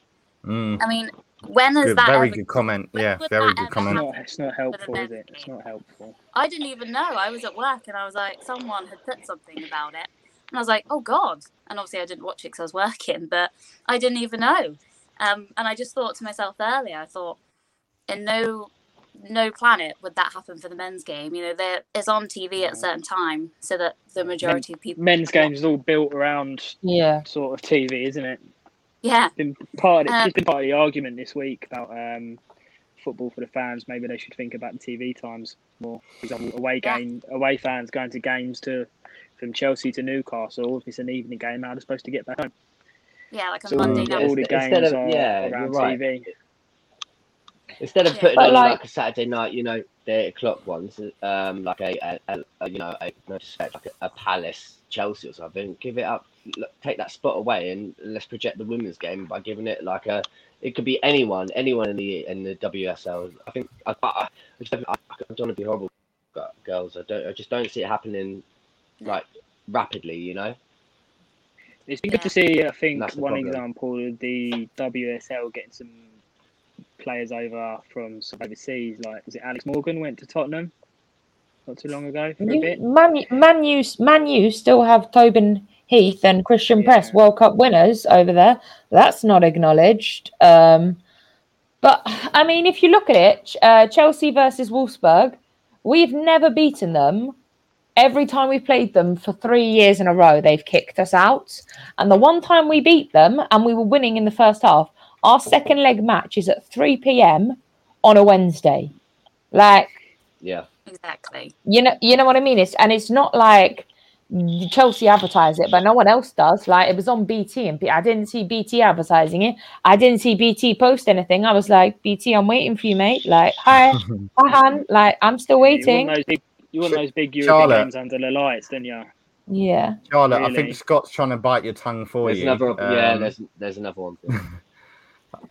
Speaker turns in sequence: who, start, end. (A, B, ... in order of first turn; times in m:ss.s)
0:00.4-0:00.8 A
0:00.8-0:04.2 B
0:01.8-0:04.0 A
0:03.8-0:06.2 C
0:04.7-0:05.5 B
0:06.3-0:17.4 B
0:18.1-0:25.5 B
0:22.6-0:22.8 C
0:24.3-0:28.4 C
0:26.8-0:27.2 D
0:29.0-0:29.3 B
0:29.4-0:32.4 C
0:30.0-0:30.3 B
0:33.0-0:42.5 C
0:43.3-0:44.3 B
0:43.7-0:46.0 E
0:43.8-0:44.1 A
0:44.0-0:46.3 C
0:47.8-1:08.4 E
0:48.1-0:48.5 B
0:48.4-0:48.8 D
1:09.1-1:10.6 E
1:11.9-1:16.0 C
1:12.9-1:13.6 E
1:17.0-1:20.7 C
1:21.7-1:22.8 C
1:22.4-1:31.0 D
1:26.8-1:27.2 C
1:31.8-1:37.4 D
1:38.0-1:48.9 D
1:49.5-1:49.9 D
1:50.8-1:51.5 B
1:51.6-2:06.2 D
2:03.9-2:04.2 A
2:05.6-2:09.1 C
2:06.8-2:07.9 A
2:09.5-2:10.0 D
2:10.1-2:13.3 A
2:10.3-2:10.8 C
2:12.2-2:14.4 E